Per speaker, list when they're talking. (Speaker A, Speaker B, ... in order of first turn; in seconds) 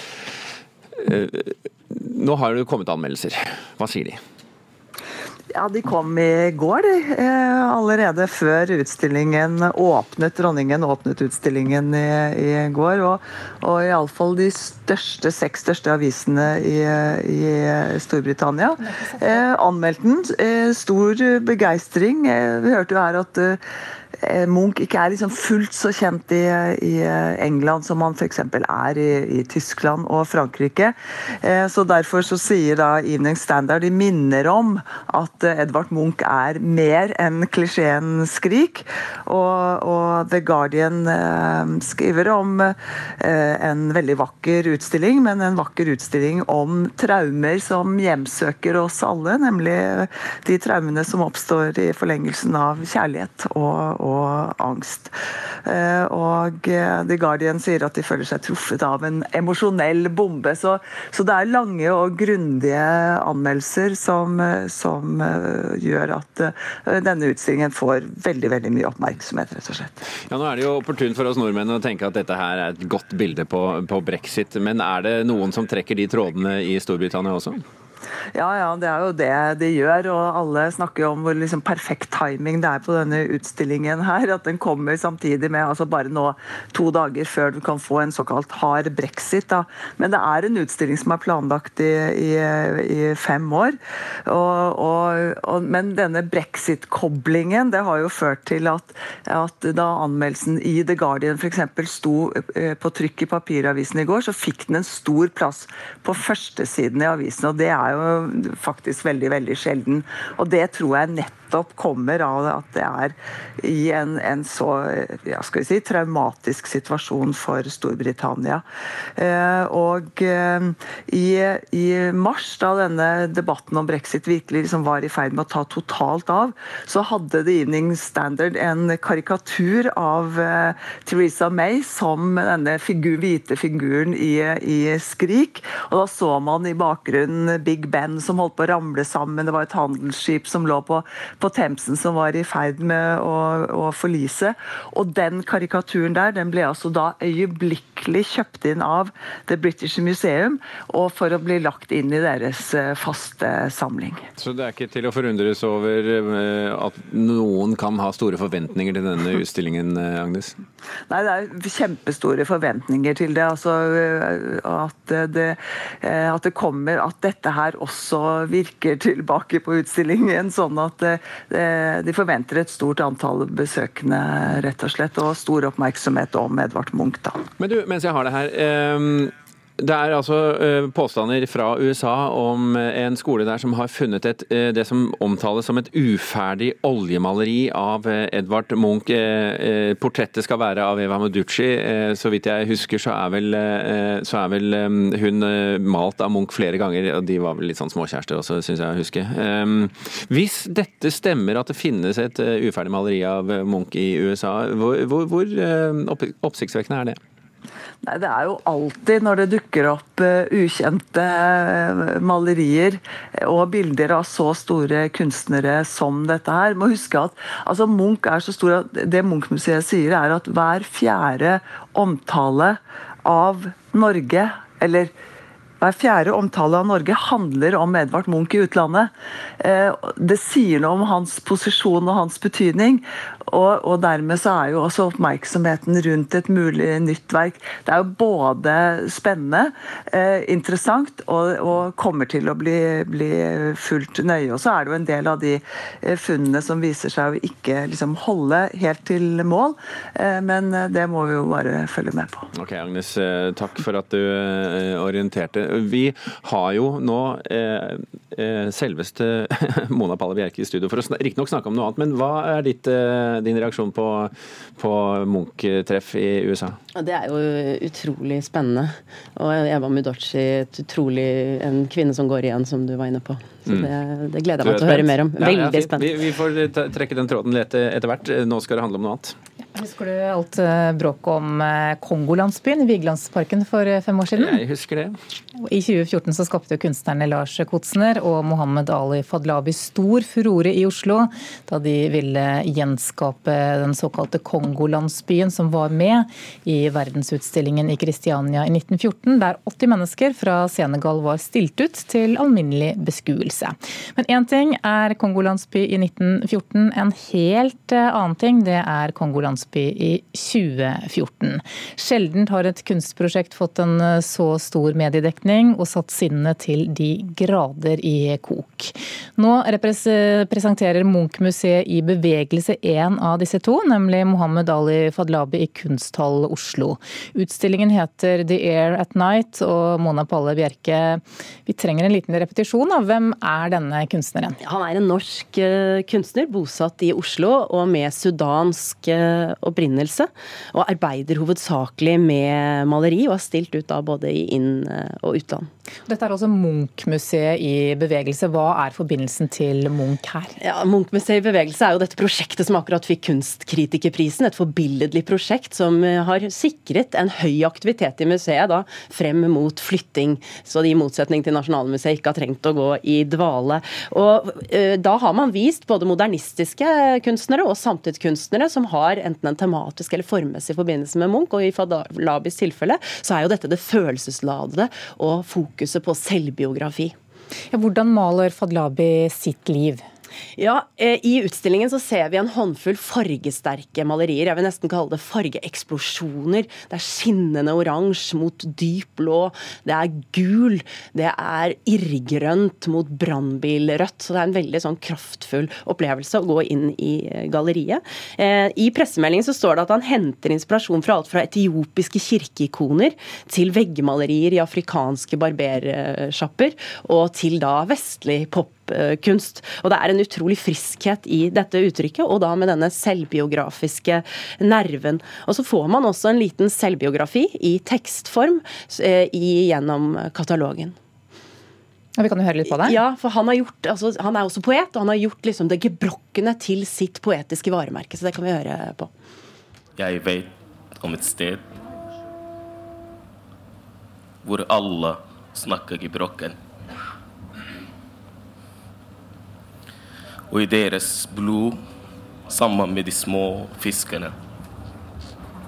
Speaker A: 1.0-4.2, 70.3-77.6, 154.4-160.6, 177.6-207.2, 252.5-266.8, 274.6-279.4, 284.4-285.2
Speaker B: 5.5-23.6, 24.2-55.1, 55.7-70.0, 78.3-93.8, 94.3-118.6, 119.2-154.2, 161.1-177.4, 208.0-225.1, 225.8-252.5
Speaker C: 18.8-19.5, 279.8-284.6, 285.6-334.6, 346.1-350.6, 377.7-380.0, 422.2-423.0
Speaker D: 266.9-276.1, 334.6-345.7, 350.6-377.1, 380.6-421.0, 422.7-429.1
Speaker E: 430.0-431.7, 434.4-436.6, 440.5-441.8, 442.5-444.4